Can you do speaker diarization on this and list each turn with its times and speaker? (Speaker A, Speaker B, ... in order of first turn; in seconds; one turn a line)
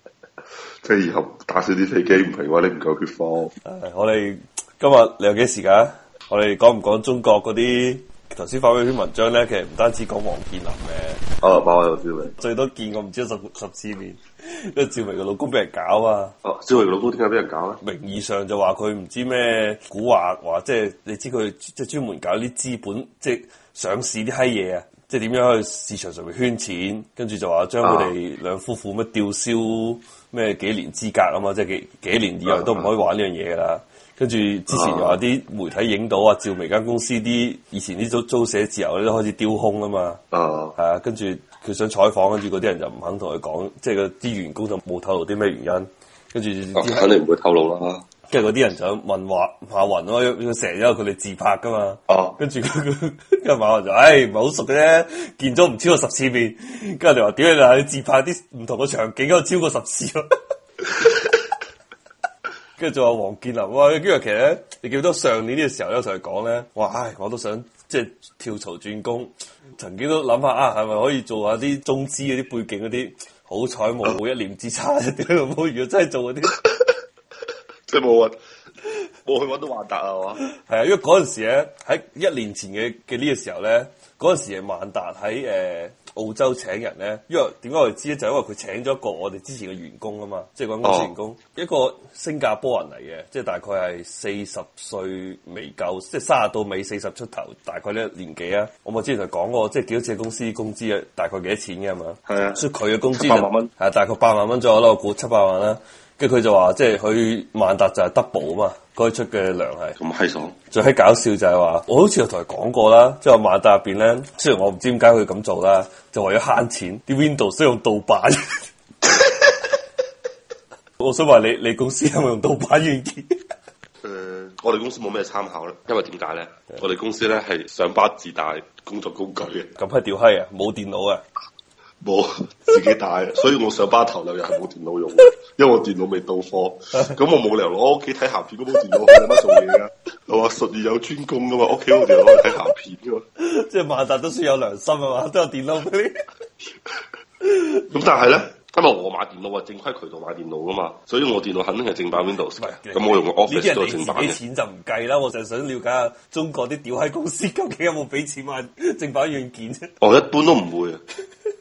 Speaker A: 0.8-3.5
Speaker B: 3.6-11.2
Speaker A: 11.4-12.3
Speaker B: 12.3-16.3
Speaker A: 16.4-17.8
Speaker B: 17.8-40.2
Speaker A: 27.8-28.1
Speaker A: 32.5-32.9
Speaker A: 34.7-35.2
Speaker A: 40.3-40.7
Speaker B: 40.8-47.1
Speaker A: 46.7-48.0
Speaker B: 48.3-60.3
Speaker A: 52.1-52.4
Speaker B: 62.8-76.6
Speaker A: 77.9-78.4
Speaker A: 79.2-80.4
Speaker B: 80.4-110.0
Speaker A: 90.8-91.1
Speaker A: 102.3-103.7
Speaker A: 110.0-110.5
Speaker B: 110.7-118.7
Speaker B: 121.0-123.4
Speaker A: 124.0-129.7
Speaker B: 129.8-131.2
Speaker A: 132.0-143.2
Speaker B: 139.3-139.6
Speaker B: 143.4-146.2
Speaker B: 147.4-148.2
Speaker A: 147.9-154.4
Speaker B: 152.6-159.9
Speaker A: 160.0-161.0